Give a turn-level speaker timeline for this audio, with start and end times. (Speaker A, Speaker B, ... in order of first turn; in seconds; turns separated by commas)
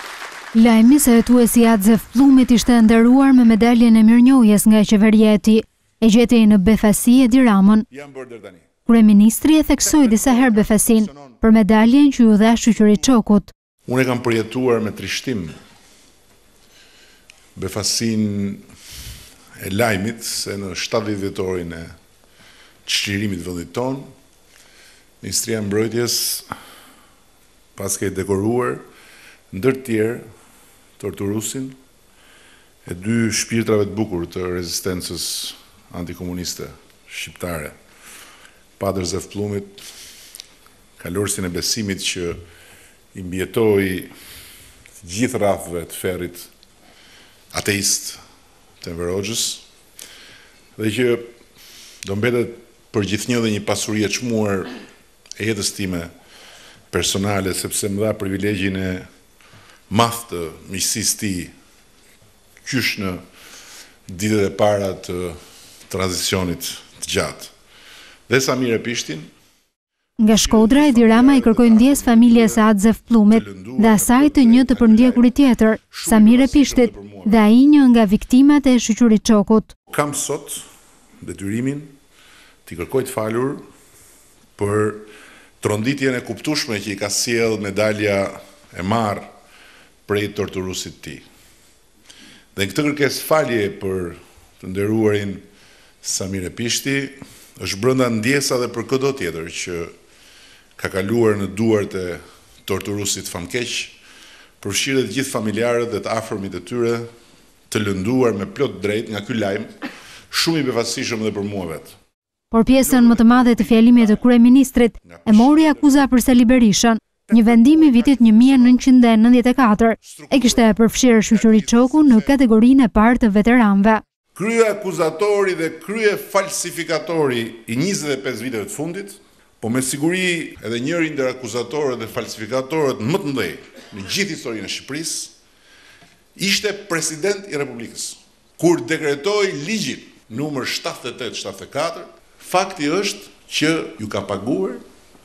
Speaker A: 0.5-7.8, Speaker B: 7.9-8.7, Speaker A: 8.8-13.5, Speaker B: 9.8-11.4, Speaker B: 13.8-15.6, Speaker B: 17.5-18.6, Speaker B: 19.6-21.9, Speaker B: 22.8-24.1, Speaker B: 25.2-26.5, Speaker B: 27.7-28.8, Speaker B: 29.5-30.2, Speaker B: 31.0-31.8, Speaker B: 32.9-37.8, Speaker B: 38.8-39.8, Speaker B: 41.0-42.4, Speaker B: 43.1-44.1, Speaker B: 45.0-46.5, Speaker B: 47.5-48.2, Speaker B: 48.8-49.6, Speaker B: 50.8-51.3, Speaker B: 52.0-54.7, Speaker B: 55.4-56.1, Speaker B: 56.9-59.0, Speaker B: 59.9-61.5, Speaker B: 62.6-63.2, Speaker B: 64.1-65.4, Speaker B: 65.9-67.5, Speaker B: 68.3-69.3, Speaker A: 70.2-79.7, Speaker B: 70.3-72.7, Speaker B: 73.3-75.3, Speaker B: 75.9-77.4, Speaker B: 79.9-80.6, Speaker B: 81.2-81.9, Speaker B: 82.7-83.6, Speaker B: 84.6-85.1, Speaker B: 85.6-89.3, Speaker B: 90.0-91.2, Speaker B: 92.5-95.4, Speaker B: 96.0-99.9, Speaker B: 100.8-104.0, Speaker B: 104.6-107.1, Speaker B: 107.7-109.7, Speaker B: 110.3-111.9, Speaker A: 112.5-124.0, Speaker B: 112.6-114.3, Speaker B: 115.0-116.0, Speaker B: 117.3-118.8, Speaker B: 120.0-122.3, Speaker B: 124.3-135.3, Speaker B: 136.3-144.8